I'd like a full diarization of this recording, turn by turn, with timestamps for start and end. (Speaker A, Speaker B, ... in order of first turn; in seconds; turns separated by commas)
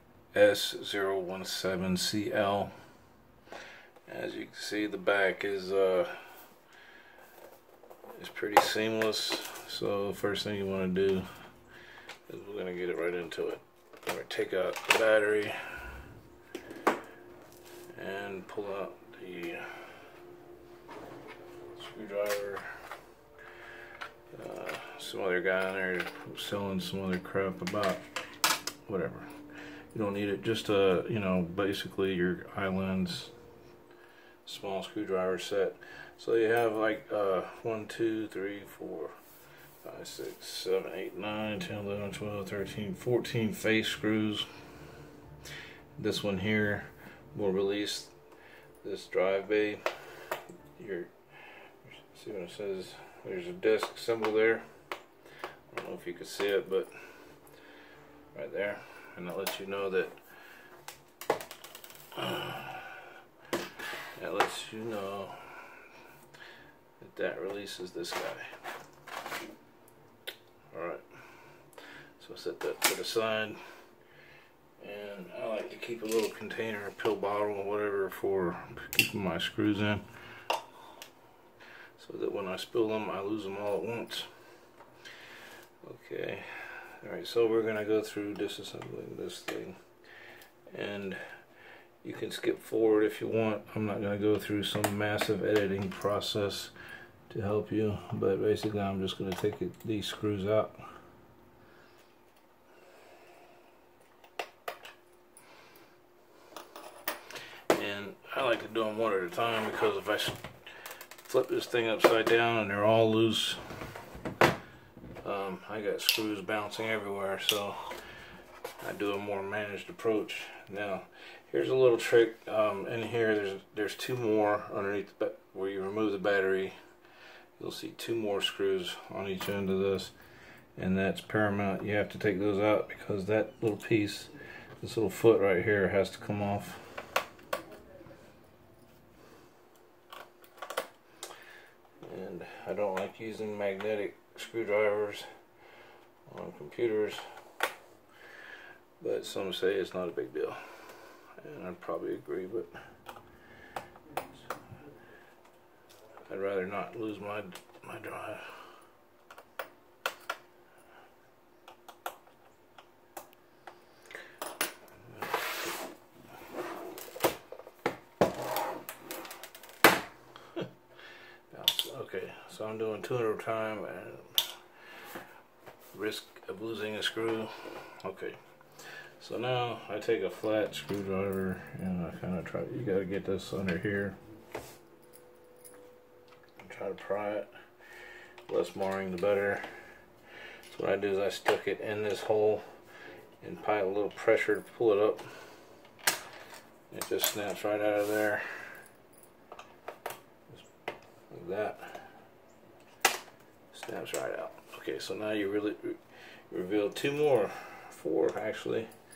Speaker A: 0.3-2.7, Speaker A: 4.1-6.4, Speaker A: 8.1-11.3, Speaker A: 12.3-16.1, Speaker A: 17.9-20.1, Speaker A: 21.7-22.9, Speaker A: 24.3-28.1, Speaker A: 28.9-29.3, Speaker A: 29.9-33.3, Speaker A: 34.5-39.2, Speaker A: 39.8-44.5, Speaker A: 46.0-48.1, Speaker A: 48.8-54.7, Speaker A: 55.7-57.4, Speaker A: 58.3-60.1, Speaker A: 62.1-63.2, Speaker A: 64.2-65.9, Speaker A: 67.0-68.6, Speaker A: 70.7-73.6, Speaker A: 74.8-80.1, Speaker A: 82.0-84.3, Speaker A: 85.8-89.8, Speaker A: 90.7-91.2, Speaker A: 92.0-96.7, Speaker A: 97.3-100.9, Speaker A: 107.7-113.6, Speaker A: 115.2-118.0, Speaker A: 118.8-126.8, Speaker A: 127.6-130.2, Speaker A: 130.8-137.0, Speaker A: 142.0-145.3, Speaker A: 146.3-147.3, Speaker A: 149.0-152.8, Speaker A: 156.3-158.7, Speaker A: 165.1-165.7, Speaker A: 170.4-175.1, Speaker A: 175.9-184.2, Speaker A: 186.6-190.0, Speaker A: 190.6-192.7, Speaker A: 193.4-195.6, Speaker A: 196.9-198.8, Speaker A: 201.3-202.2, Speaker A: 203.7-208.9